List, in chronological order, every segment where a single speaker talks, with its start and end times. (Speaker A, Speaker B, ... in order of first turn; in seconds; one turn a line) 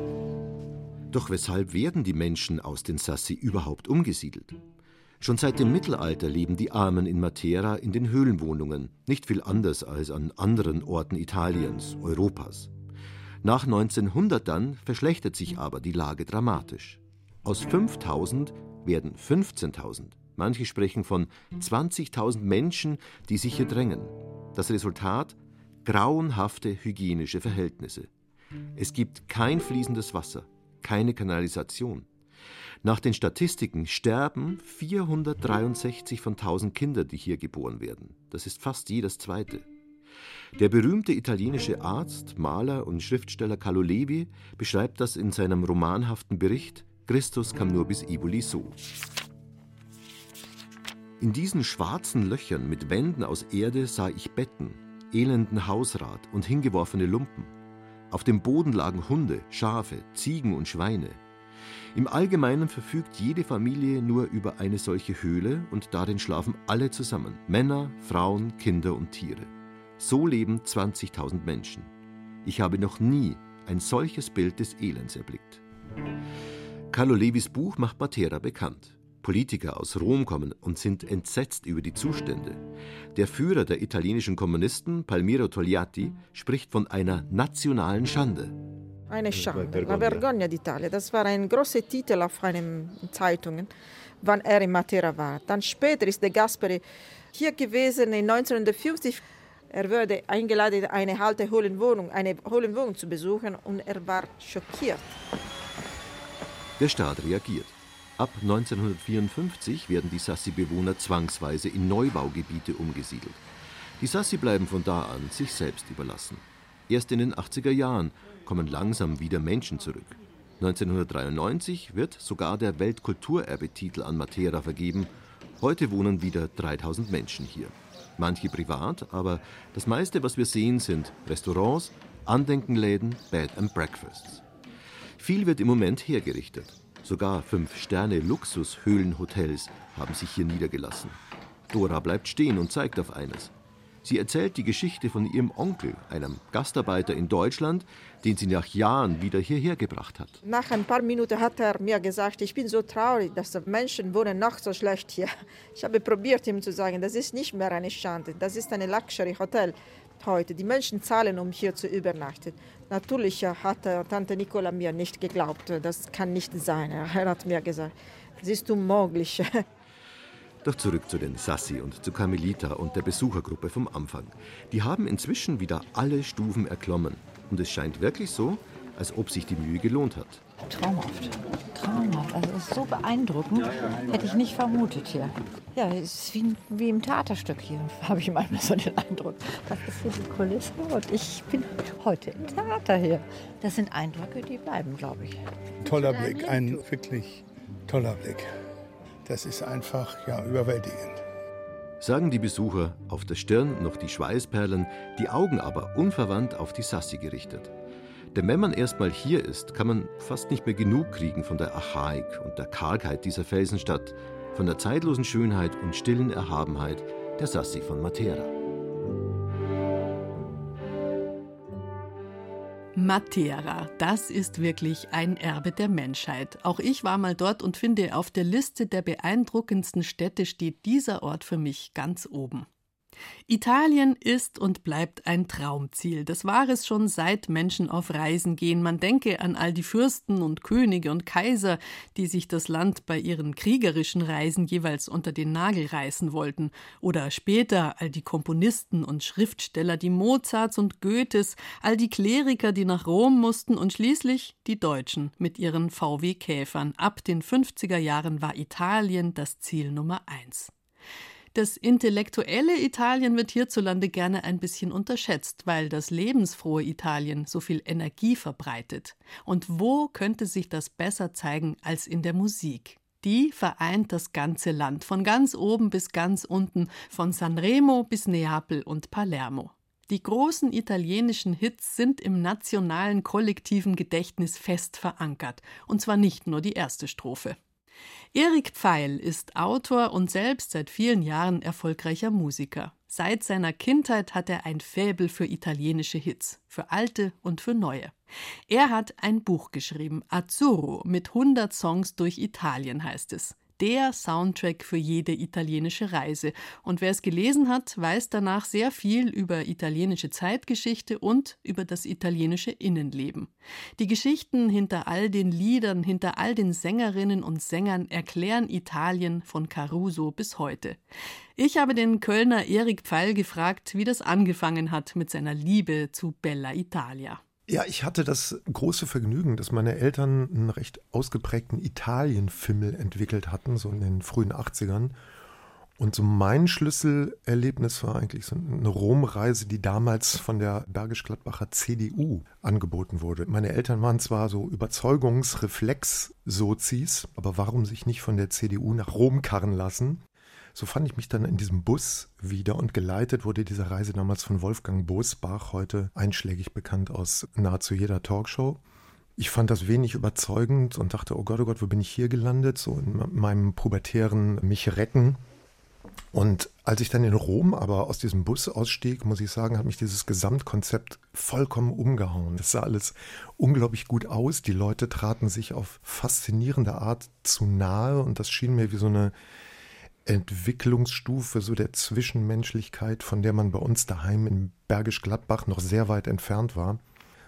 Speaker A: 1.1-4.6
Speaker A: 5.2-12.7
Speaker A: 13.4-28.1
Speaker A: 28.8-32.0
Speaker A: 32.8-39.6
Speaker A: 40.6-48.8
Speaker A: 51.2-57.5
Speaker A: 58.1-61.2
Speaker A: 61.9-71.9
Speaker A: 72.4-75.6
Speaker A: 76.9-82.6
Speaker A: 83.1-88.5
Speaker B: 89.1-93.7
Speaker A: 89.4-90.2
Speaker B: 94.2-96.8
Speaker B: 97.3-105.1
Speaker A: 106.8-113.4
Speaker A: 114.0-134.4
Speaker A: 135.2-141.2
Speaker A: 141.7-143.5
Speaker A: 144.0-150.4
Speaker B: 150.4-169.6
Speaker A: 170.6-180.4
Speaker C: 180.6-195.4
Speaker D: 195.8-198.5
Speaker C: 195.9-196.6
Speaker D: 199.2-201.2
Speaker A: 202.0-207.7
Speaker A: 208.3-218.5
Speaker E: 222.9-232.7
Speaker E: 233.5-260.7
Speaker E: 261.5-287.6
Speaker E: 288.3-298.1
Speaker E: 298.7-321.0
Speaker E: 321.6-327.4
Speaker F: 327.7-335.1
Speaker F: 336.0-350.2
Speaker F: 350.7-358.8
Speaker F: 359.4-365.4
Speaker F: 366.3-379.3
Speaker F: 380.2-387.0